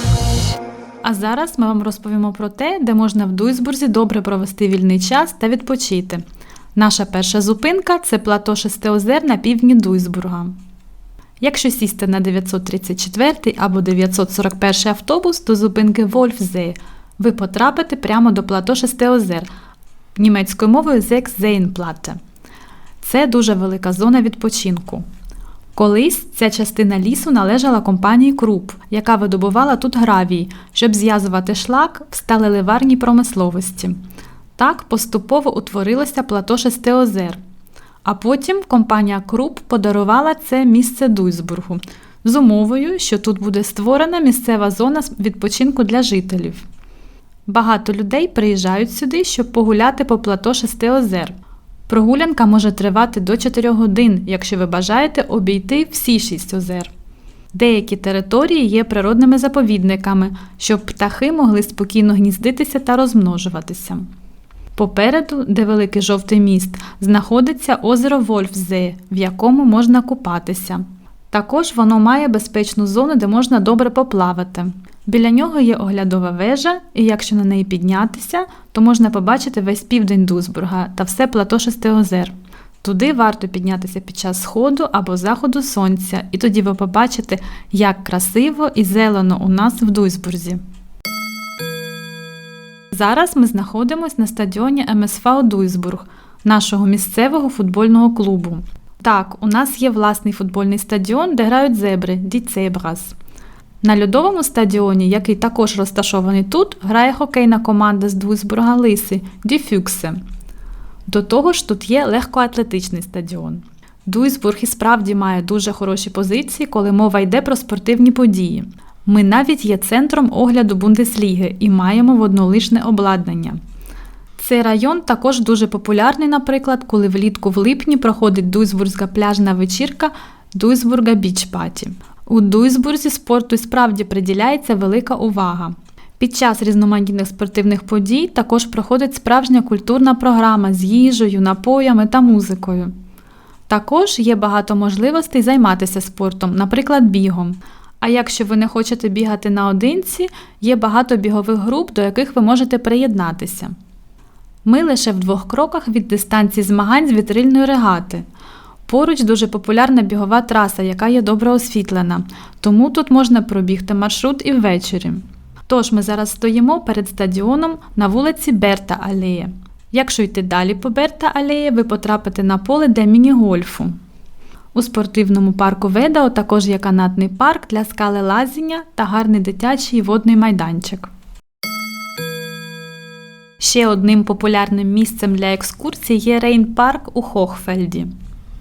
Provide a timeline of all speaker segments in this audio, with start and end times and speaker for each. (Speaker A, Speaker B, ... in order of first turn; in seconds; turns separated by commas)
Speaker A: 1.0-6.2, Speaker A: 6.7-10.5, Speaker A: 11.4-19.5, Speaker A: 20.1-22.2, Speaker A: 23.0-25.0, Speaker A: 25.7-34.0, Speaker A: 34.6-37.4, Speaker A: 38.0-46.6, Speaker A: 47.5-51.3, Speaker A: 51.9-56.9, Speaker A: 57.5-64.0, Speaker A: 64.8-90.6, Speaker A: 92.9-103.1, Speaker A: 103.8-110.2, Speaker A: 111.1-123.6, Speaker A: 124.4-142.9, Speaker A: 143.7-153.7, Speaker A: 154.6-158.2, Speaker A: 158.9-173.9, Speaker A: 174.7-181.1, Speaker A: 183.6-188.1